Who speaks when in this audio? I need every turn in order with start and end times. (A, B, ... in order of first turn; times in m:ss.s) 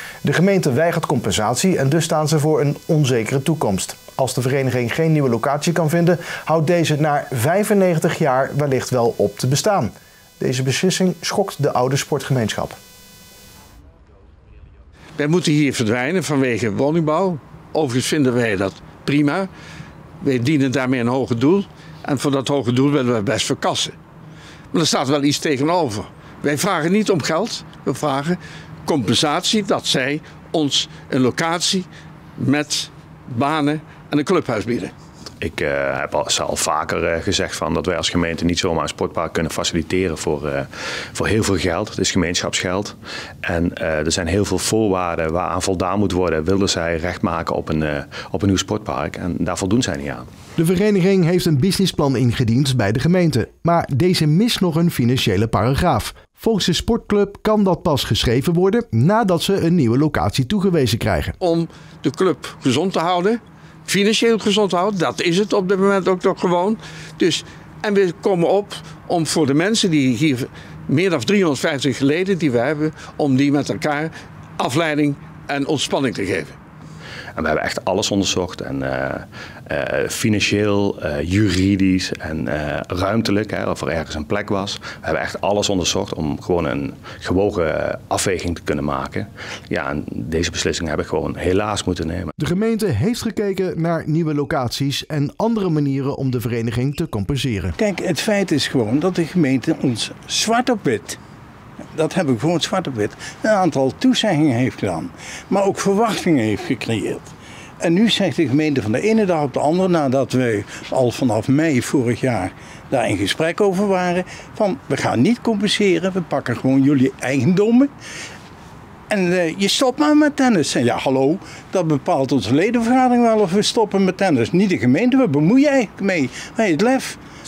0:00.2-0:12.8 A
0:15.2-0:19.5 B
0:20.2-0:24.0 B
0:24.7-0:34.9 B
0:35.4-0:50.3 C
0:50.6-1:01.4 A
1:01.4-1:16.6 B
1:17.4-1:32.3 C
1:32.4-1:37.8 A
1:37.8-1:41.2 D
1:41.9-1:57.9 D
1:59.1-2:07.2 D